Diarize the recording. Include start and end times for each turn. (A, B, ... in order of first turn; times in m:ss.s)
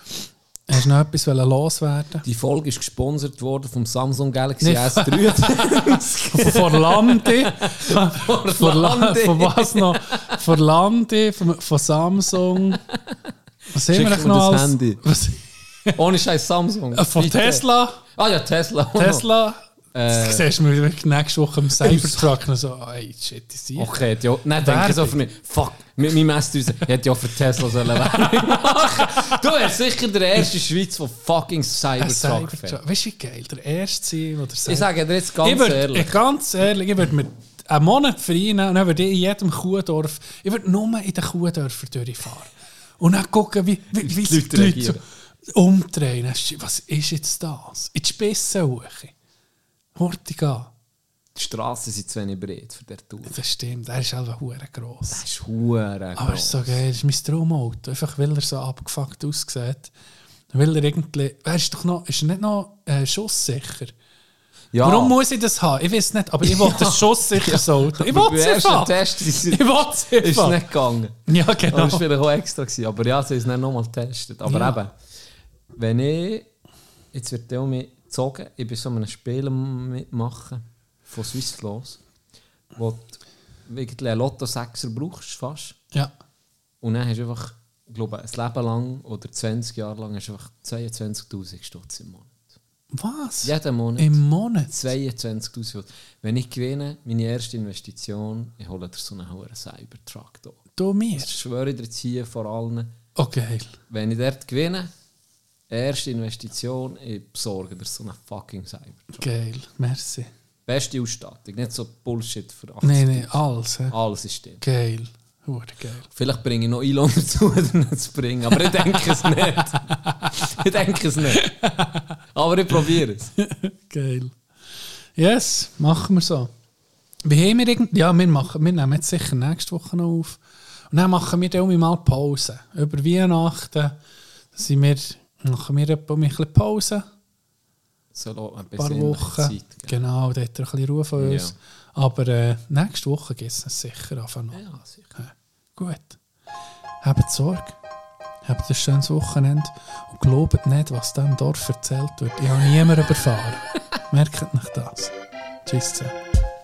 0:00.7-0:02.2 A
0:02.2-0:10.4 B
0:04.6-0:12.8 A
0:13.7-0:16.0 A
0:13.9-0:15.0 B
0:16.0-0:19.3 B
0:16.9-0:18.0 A
0:19.0-0:23.9 A
0:19.9-0:20.5 B
0:21.8-0:22.3 B
0:23.8-0:32.8 B
0:24.6-0:25.2 A
0:27.8-0:28.6 A
0:32.0-0:34.9 A
0:34.7-0:36.1 B
0:35.4-0:45.0 A
0:43.9-0:45.0 B
0:45.6-0:49.1 A
0:50.0-0:50.7 A
0:51.4-0:53.4 B
0:53.3-0:55.2 A
0:55.1-0:56.8 B
0:56.2-0:59.9 A
1:00.5-1:03.9 A
1:04.7-1:05.2 B
1:04.8-1:10.6 A
1:06.4-1:14.9 B
1:11.3-1:12.0 A
1:14.5-1:14.8 A
1:15.8-1:16.5 B
1:17.1-1:22.0 B
1:22.8-1:25.8 B
1:26.8-1:32.5 B
1:32.9-1:34.9 A
1:33.4-1:34.2 B
1:34.7-1:40.6 B
1:40.8-1:41.4 A
1:41.2-1:42.9 B
1:43.2-1:43.8 A
1:43.9-1:44.9 B
1:45.7-1:49.3 B
1:49.2-1:50.3 A
1:50.7-1:54.6 B
1:52.8-1:54.0 A
1:54.6-1:56.1 A
1:56.1-2:01.5 B
1:58.5-2:00.4 A
2:01.3-2:02.2 A
2:02.3-2:03.3 B
2:03.4-2:04.4 A
2:05.2-2:06.5 A
2:07.2-2:10.4 A
2:10.9-2:14.0 A
2:14.6-2:17.1 A
2:18.1-2:20.0 B
2:18.8-2:24.6 A
2:21.2-2:21.6 B
2:24.5-2:25.2 B
2:25.2-2:26.2 A
2:27.0-2:27.8 A
2:28.4-2:35.1 A
2:35.7-2:36.2 A